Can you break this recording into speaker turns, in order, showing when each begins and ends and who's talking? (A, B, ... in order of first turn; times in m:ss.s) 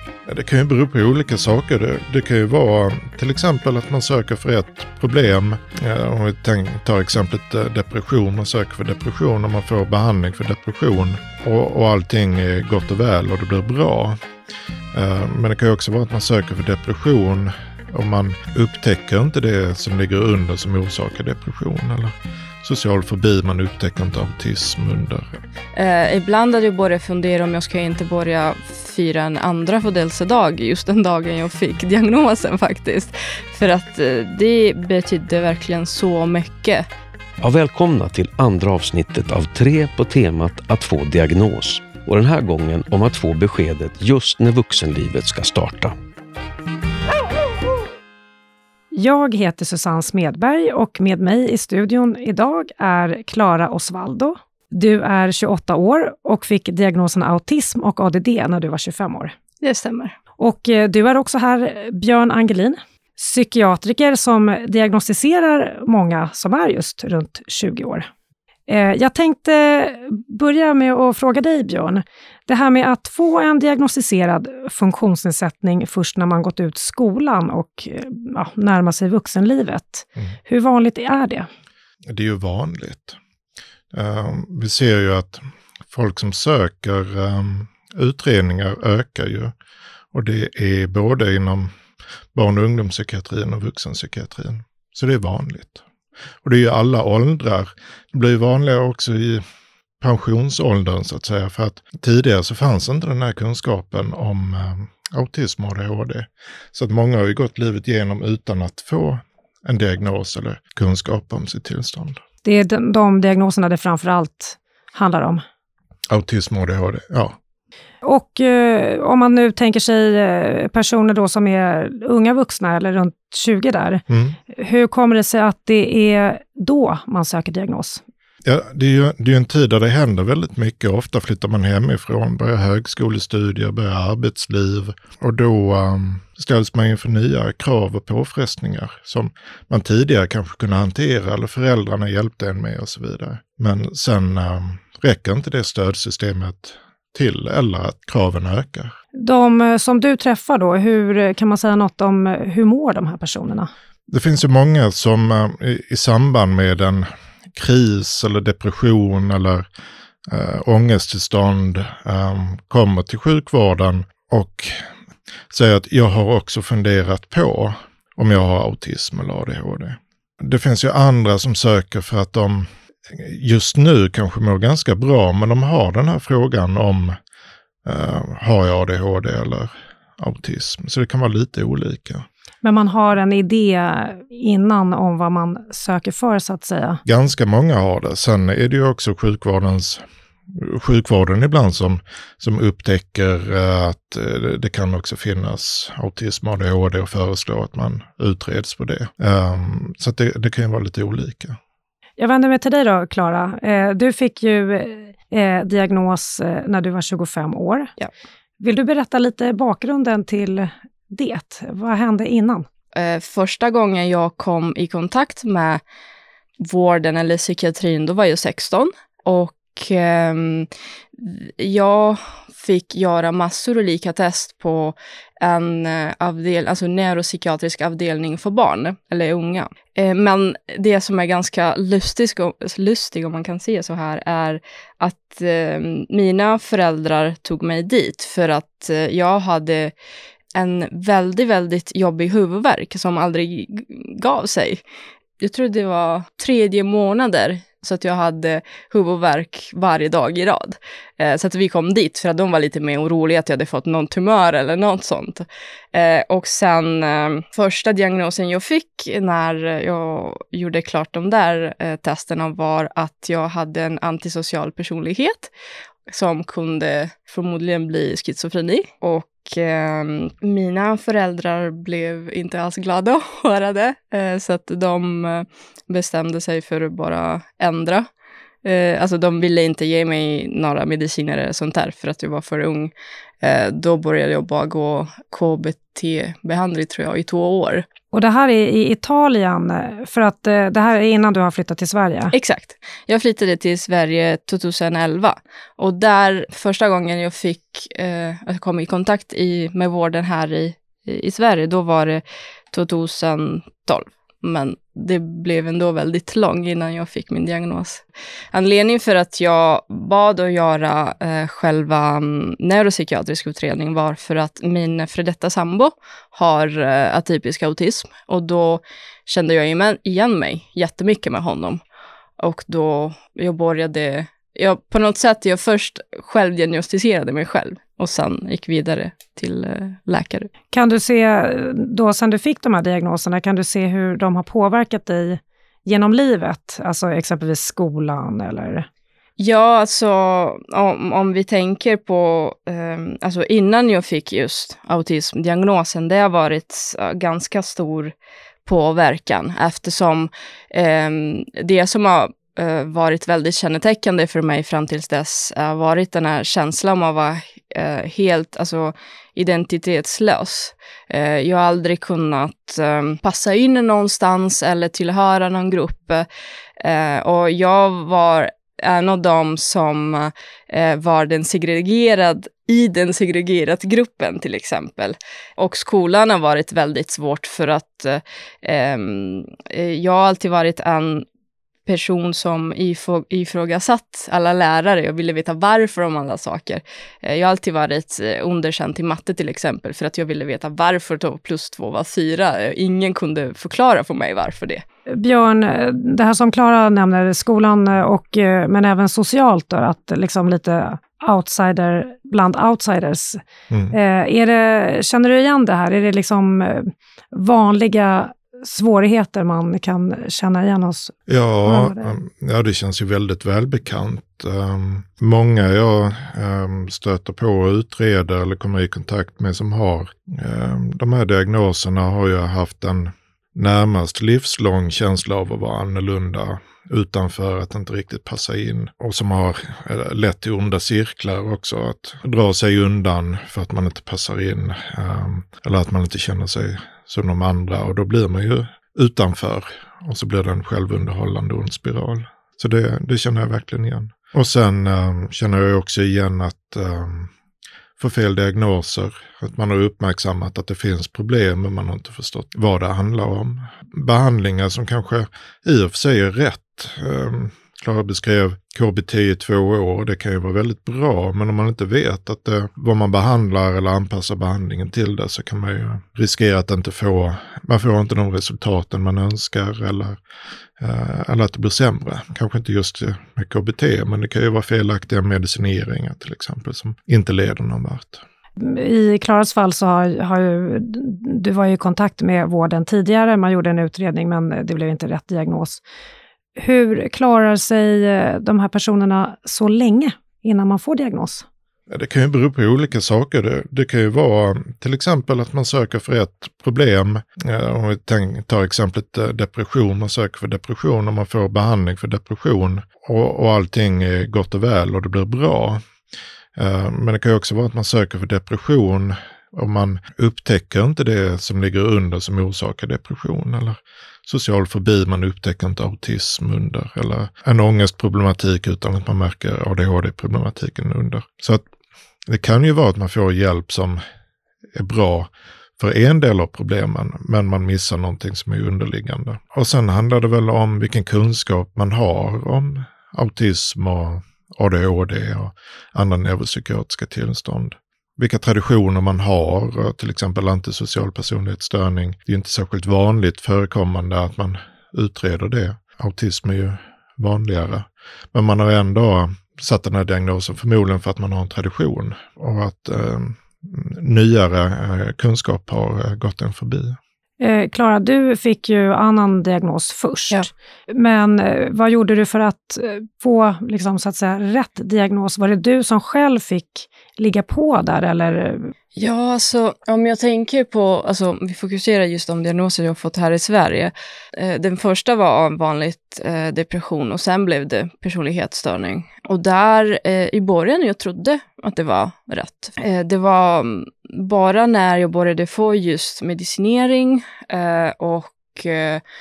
0:00.3-0:14.2 A
0:14.9-0:25.3 A
0:25.7-0:36.8 B
0:37.4-0:46.0 C
0:48.9-0:59.3 D
0:59.6-1:00.2 B
1:00.4-1:08.1 D
1:08.7-1:21.5 D
1:22.1-1:23.2 A
1:23.9-1:29.5 A
1:30.1-1:31.7 A
1:32.3-1:35.8 A
1:36.4-1:39.4 A
1:40.0-1:52.2 A
1:52.4-1:55.4 D
1:56.1-1:57.4 A
1:58.0-2:08.0 D
2:04.1-2:04.4 A
2:08.4-2:28.9 A
2:29.2-2:33.7 D
2:34.1-2:39.6 A
2:40.2-2:44.9 A
2:45.5-2:57.2 A
2:57.8-3:02.2 A
3:02.6-3:07.0 D
3:07.0-3:21.6 A
3:22.2-3:27.9 D
3:28.6-3:32.6 D
3:32.9-3:35.8 B
3:36.6-3:59.9 B
4:00.5-4:04.8 B
4:05.4-4:25.5 B
4:26.1-4:38.1 B
4:38.6-4:47.8 B
4:48.1-4:52.3 D
4:52.3-5:21.8 B
5:22.4-5:30.5 B
5:30.7-5:38.9 D
5:39.4-5:48.1 B
5:48.6-6:06.3 B
6:06.8-6:21.2 B
6:21.8-6:34.8 B
6:35.1-6:43.4 D
6:43.7-6:43.9 A
6:43.9-6:52.1 D
6:51.3-7:27.3 A
7:28.0-7:50.2 A
7:50.8-7:58.2 A
7:58.6-8:05.8 D
8:06.6-8:11.4 D
8:11.9-8:25.8 A
8:26.6-8:41.6 A
8:42.3-8:44.0 A
8:44.7-9:17.0 A
9:17.4-9:28.7 D
9:29.0-9:49.0 B